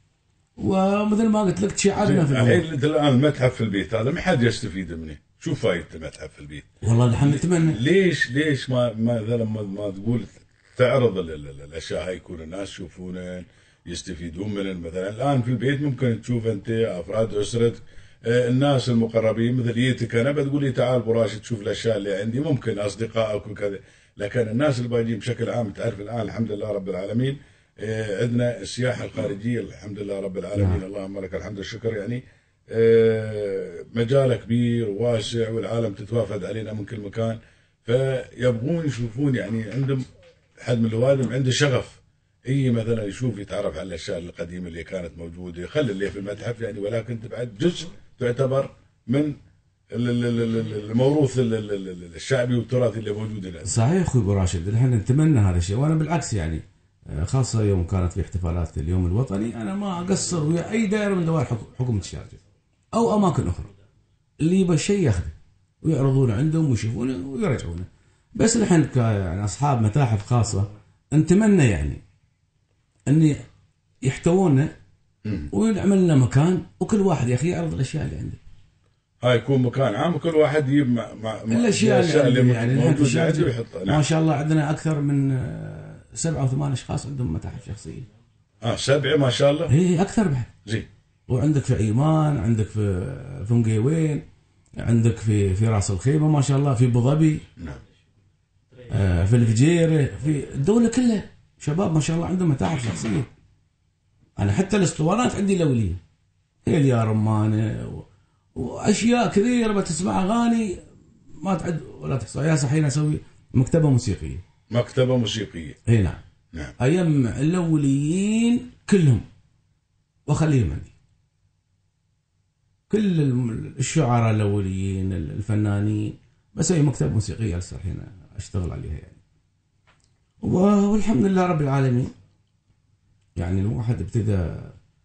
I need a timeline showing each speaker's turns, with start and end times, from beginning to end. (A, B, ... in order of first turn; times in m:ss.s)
0:00.6-0:02.6 A
0:02.0-0:40.0 B
0:06.8-0:07.8 A
0:30.5-0:30.8 A
0:40.6-0:49.4 B
0:49.9-0:53.8 B
0:53.6-1:02.4 A
1:02.9-1:03.7 A
1:04.4-1:12.0 A
1:13.1-1:13.4 A
1:14.0-1:14.7 A
1:15.2-1:15.5 B
1:15.5-1:18.4 A
1:19.2-1:24.0 B
1:21.5-1:28.1 A
1:28.6-1:29.7 B
1:29.7-1:30.5 A
1:31.3-1:34.2 A
1:34.8-1:37.4 A
1:38.9-1:43.3 A
1:44.4-1:46.0 A
1:46.6-1:50.8 A
1:51.4-1:54.4 A
1:54.7-1:55.8 B
1:55.9-1:56.2 A
1:56.8-1:59.2 A
2:00.3-2:00.9 A
2:02.9-2:09.2 A
2:10.4-2:12.1 A
2:13.4-2:14.7 A